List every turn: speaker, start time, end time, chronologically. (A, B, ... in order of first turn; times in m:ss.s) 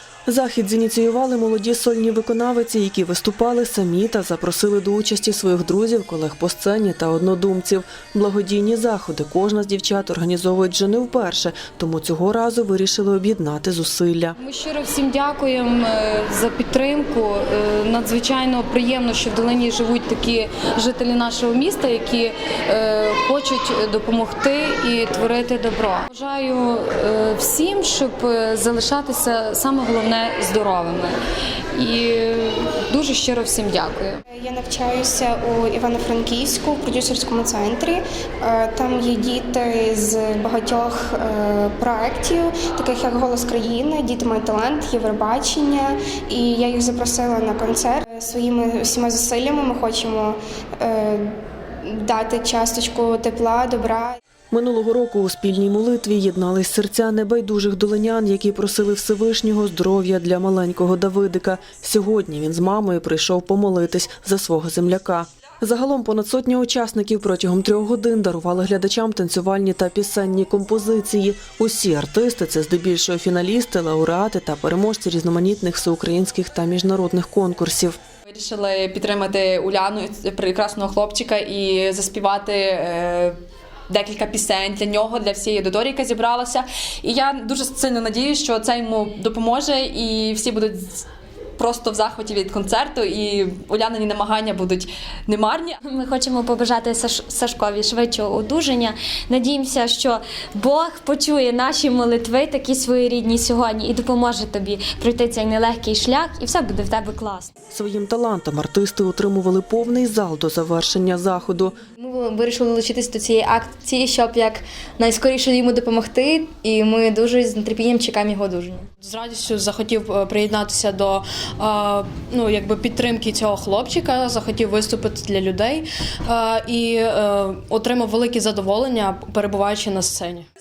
0:00.3-0:14.4 A
0:14.4-0:31.2 B
0:31.7-0:34.2 B
0:34.3-0:51.3 C
0:51.8-0:54.2 C
0:54.5-1:18.0 A
1:18.3-1:23.3 D
1:23.9-1:31.0 D
1:31.6-1:35.8 D
1:35.9-1:47.5 E
1:47.7-1:51.8 A
1:52.0-1:58.9 F
1:59.0-2:10.5 G